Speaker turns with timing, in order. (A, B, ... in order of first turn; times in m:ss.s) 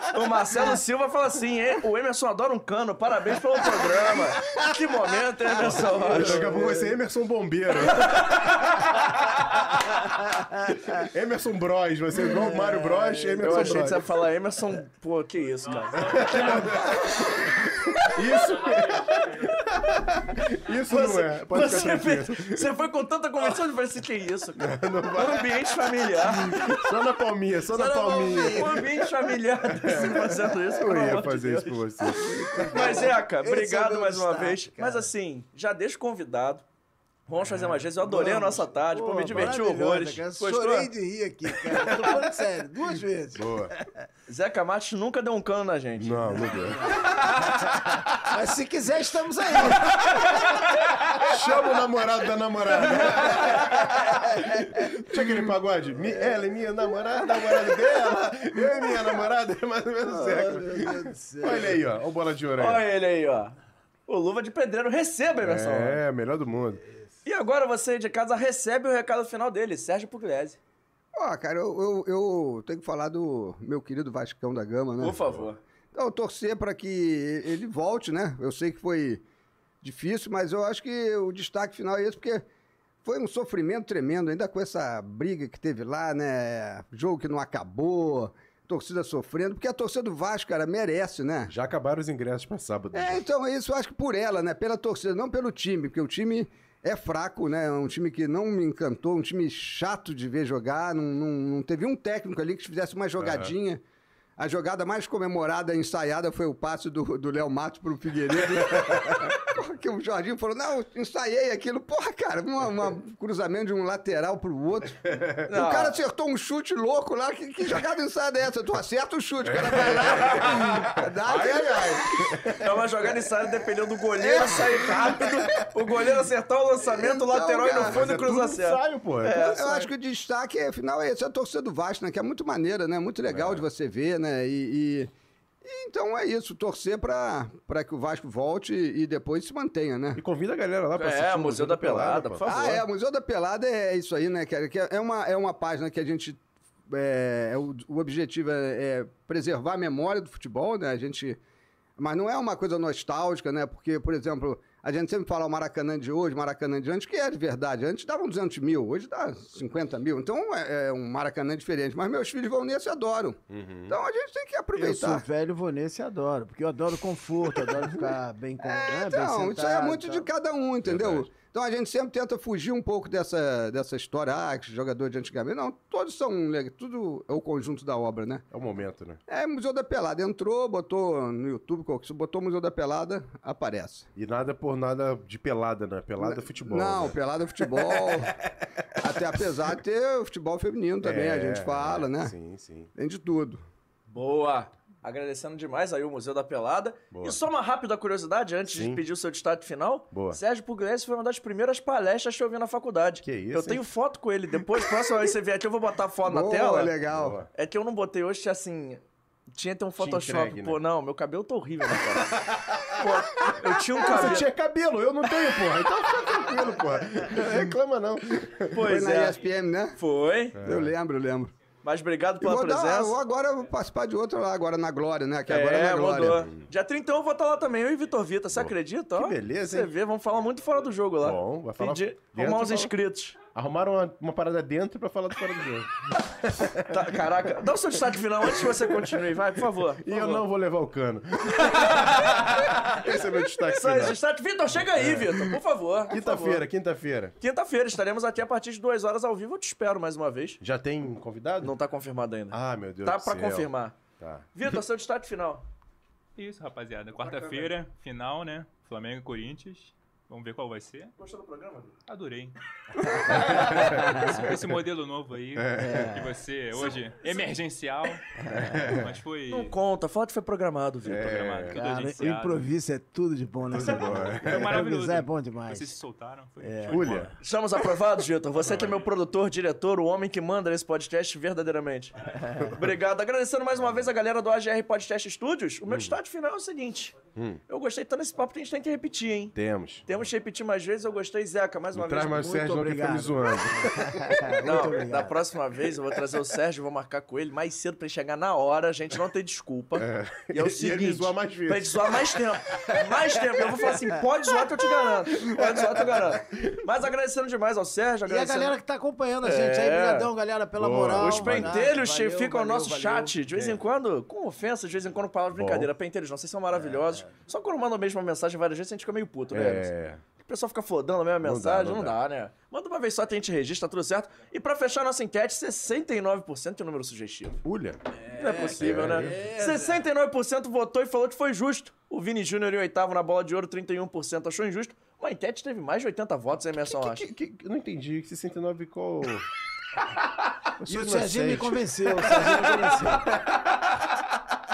0:00.1-0:06.8 A
0:05.6-0:08.3 B
0:05.6-0:06.9 C
0:10.2-0:11.0 C
0:11.0-0:14.0 B
0:12.2-0:14.0 C
0:13.4-0:16.9 A
0:16.0-0:22.7 B
0:20.9-0:26.8 A
0:24.6-0:25.6 B
0:26.3-0:28.9 B
0:27.7-0:29.1 C
0:28.3-0:31.8 A
0:29.6-0:32.9 B
0:32.5-0:35.1 C
0:32.7-0:36.6 A
0:37.3-0:40.9 A
0:37.6-0:43.9 C
0:39.3-0:39.6 B
0:43.4-0:43.7 B
0:44.3-0:46.4 A
0:46.0-0:47.1 B
0:46.4-0:47.5 C
0:48.2-0:49.9 C
0:49.7-0:54.2 B
0:54.8-1:02.8 B
1:00.1-1:01.8 C
1:02.6-1:03.6 A
1:04.1-1:06.0 A
1:05.4-1:06.8 B
1:07.2-1:10.6 A
1:11.2-1:15.2 D
1:15.0-1:15.6 A
1:15.9-1:19.2 D
1:19.8-1:22.4 D
1:23.0-1:31.5 D
1:31.5-1:33.2 B
1:32.9-1:43.8 D
1:43.2-1:43.5 B
1:44.4-2:02.0 D
1:48.7-1:49.0 B
1:55.1-1:55.4 B
1:55.5-1:56.0 A
1:59.4-2:02.8 B
1:59.8-2:00.8 A
2:02.5-2:09.6 A
2:04.2-2:05.2 D
2:06.8-2:08.2 D
2:07.7-2:09.9 B
2:09.4-2:15.1 D
2:13.3-2:13.7 B
2:15.6-2:20.2 D
2:20.2-2:22.4 B
2:21.0-2:22.8 A
2:22.4-2:31.4 D
2:32.0-2:45.2 D
2:43.5-2:44.0 B
2:44.8-2:50.3 C
2:48.6-2:58.4 D
2:50.8-2:51.3 B
2:58.5-2:59.2 B
2:59.3-3:04.1 D
3:04.2-3:07.2 B
3:06.2-3:08.3 D
3:09.0-3:12.3 D
3:11.0-3:12.9 B
3:13.0-3:13.6 D
3:14.1-3:27.0 A
3:17.1-3:17.4 B
3:18.6-3:19.0 B
3:20.1-3:20.4 B
3:23.2-3:23.9 B
3:26.2-3:27.4 D
3:27.1-3:27.5 B
3:27.5-3:29.0 A
3:29.5-3:34.5 A
3:30.0-3:30.8 B
3:32.2-3:33.0 B
3:34.0-3:38.8 B
3:38.7-3:39.4 A
3:38.8-3:40.0 D
3:40.0-3:40.6 A
3:40.5-3:40.9 B
3:40.6-3:41.5 D
3:41.8-3:43.2 A
3:42.4-3:46.4 D
3:45.5-3:53.4 A
3:46.4-3:46.7 B
3:48.5-3:49.9 B
3:51.2-3:52.9 B
3:53.6-3:57.0 B
3:56.9-4:00.4 A
3:58.4-3:59.4 B
4:00.0-4:04.2 B
4:01.6-4:03.0 A
4:03.6-4:06.6 A
4:05.0-4:05.4 B
4:06.1-4:07.4 B
4:07.4-4:10.6 A
4:10.6-4:11.8 B
4:11.6-4:14.0 A
4:12.5-4:14.5 B
4:14.5-4:15.6 A
4:16.4-4:21.1 E
4:17.2-4:17.6 A
4:21.2-4:22.0 A
4:22.1-4:22.6 E
4:23.3-4:24.4 B
4:23.3-4:29.8 E
4:24.0-4:24.2 C
4:25.6-4:26.2 B
4:25.7-4:26.4 C
4:28.4-4:28.8 C
4:28.5-4:29.2 B
4:29.5-4:31.7 A
4:31.0-4:31.8 B
4:31.2-4:32.7 E
4:31.7-4:36.0 C
4:33.7-4:34.8 B
4:33.8-4:37.4 E
4:36.6-4:37.1 C
4:36.9-4:37.3 B
4:37.4-4:47.2 A
4:38.6-4:39.0 B
4:45.9-4:46.2 B
4:47.4-4:47.6 B
4:47.7-4:49.6 A
4:49.6-4:50.1 B
4:50.1-4:52.4 A
4:51.9-4:54.7 B
4:52.3-4:55.4 C
4:54.6-5:08.8 A
5:00.0-5:03.9 B
5:05.3-5:06.7 B
5:08.2-5:13.7 C
5:09.4-5:10.3 A
5:10.8-5:11.9 B
5:11.2-5:27.6 A
5:15.5-5:15.9 B
5:16.8-5:17.3 C
5:19.5-5:20.2 B
5:21.4-5:22.2 B
5:27.6-5:28.0 B
5:28.4-5:37.2 A
5:28.5-5:29.4 B
5:36.8-5:39.5 B
5:40.8-5:42.1 B
5:40.9-5:43.3 C